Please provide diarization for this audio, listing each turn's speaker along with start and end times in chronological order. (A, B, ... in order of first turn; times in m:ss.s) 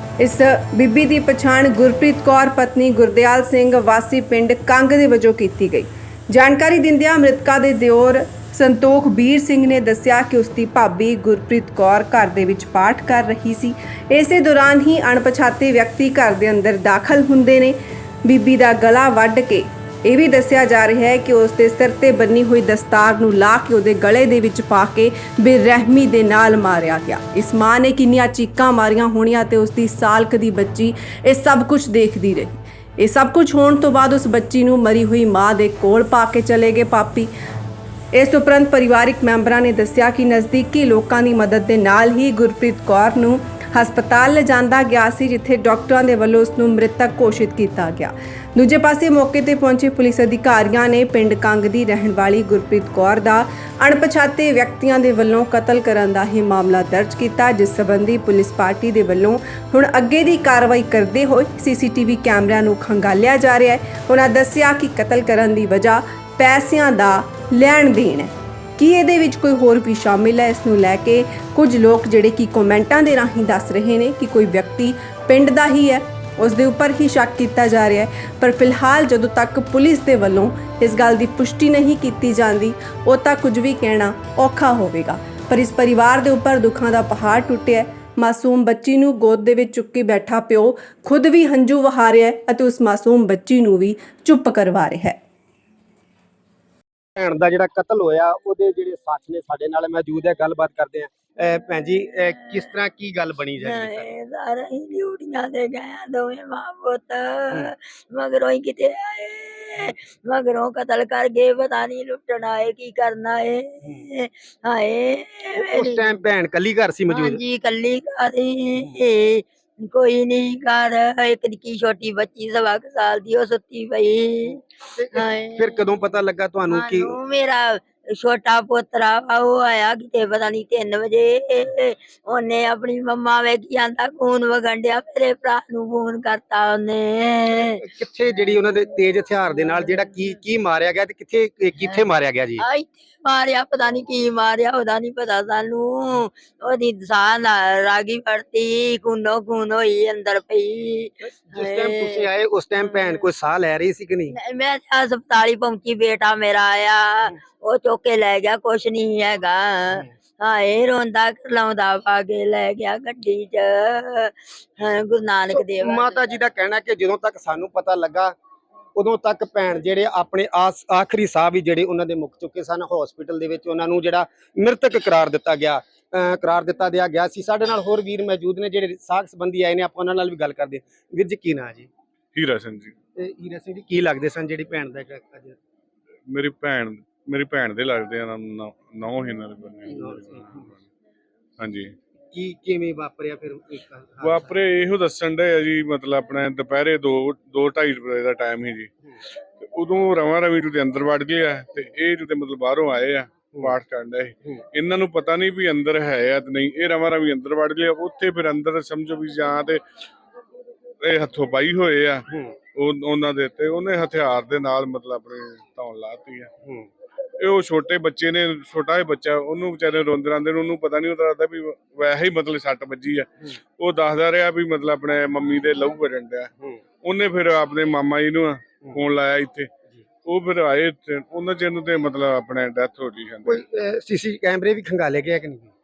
0:00.2-0:17.7 A
0:18.3-0:37.3 A
0:38.1-1:35.2 A
1:37.2-1:44.1 B
1:42.0-1:42.8 C
1:43.6-1:56.3 C
1:55.6-1:57.4 B
1:57.1-2:04.6 C
2:05.0-2:07.2 B
2:05.2-2:06.2 C
2:06.7-2:17.8 C
2:17.8-2:22.6 B
2:21.9-2:33.2 C
2:31.2-2:34.4 B
2:34.3-2:46.4 C
2:45.5-2:48.4 B
2:49.0-3:01.9 B
3:02.4-3:02.9 D
3:03.2-3:05.6 B
3:06.3-3:10.8 D
3:10.0-3:10.4 B
3:11.6-3:11.9 D
3:12.3-3:14.5 B
3:14.2-3:18.9 D
3:19.6-3:29.8 D
3:31.0-3:36.5 D
3:37.4-3:49.7 D
3:50.2-3:53.6 D
3:53.5-3:55.7 B